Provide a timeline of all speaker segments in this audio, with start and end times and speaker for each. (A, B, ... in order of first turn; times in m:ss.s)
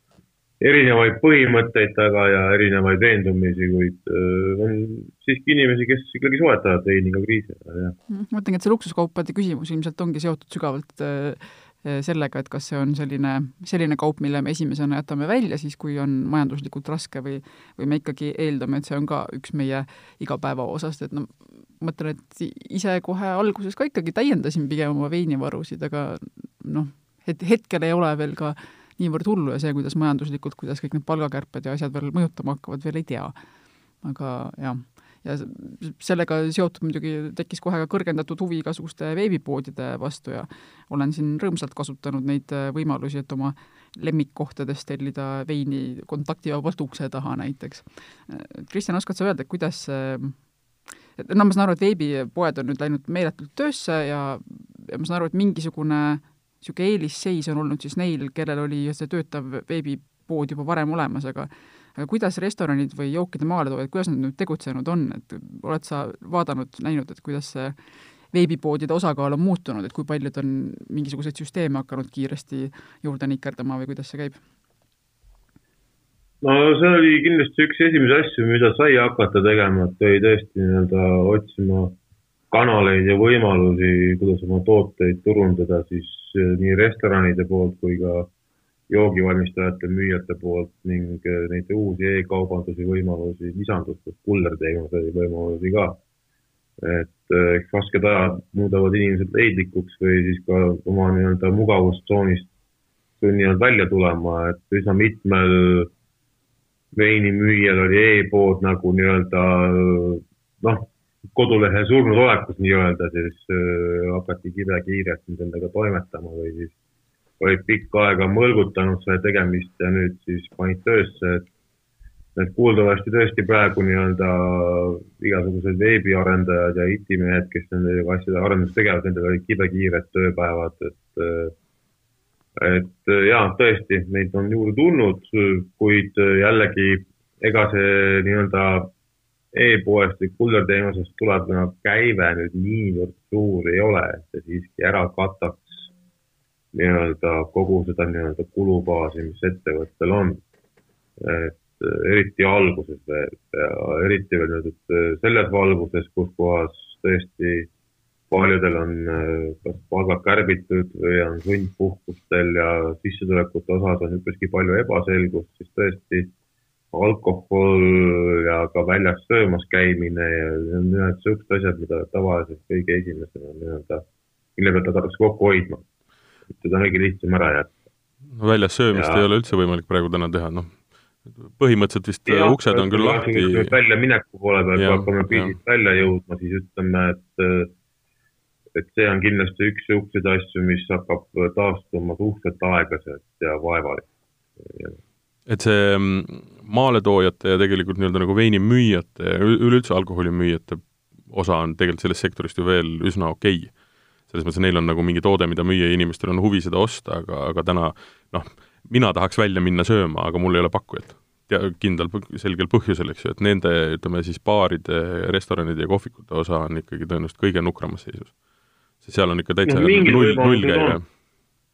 0:00.6-0:08.0 A
0:08.1-0:33.3 B
0:34.0-0:50.4 B
0:51.2-1:07.8 B
1:08.3-1:14.4 B
1:16.4-1:22.0 A
1:22.5-1:28.3 A
1:28.9-1:36.0 A
1:36.8-1:42.5 A
1:43.2-1:45.9 A
1:46.9-1:56.7 A
1:57.4-2:01.5 A
2:02.4-2:11.5 A
2:12.6-2:18.9 A
2:19.5-2:25.9 A
2:26.7-2:30.4 A
2:31.2-2:37.7 A
2:38.3-2:46.3 A
2:46.9-2:54.0 A
2:54.6-2:55.8 A
2:56.5-2:57.7 A
2:58.3-3:00.8 C
2:58.9-2:59.2 A
3:01.4-3:03.8 C
3:02.3-3:07.7 A
3:04.7-3:05.5 C
3:08.7-3:14.1 A
3:14.6-3:15.0 A
3:15.5-3:23.7 C
3:24.3-3:38.3 C
3:39.0-3:41.0 C
3:39.6-3:41.0 A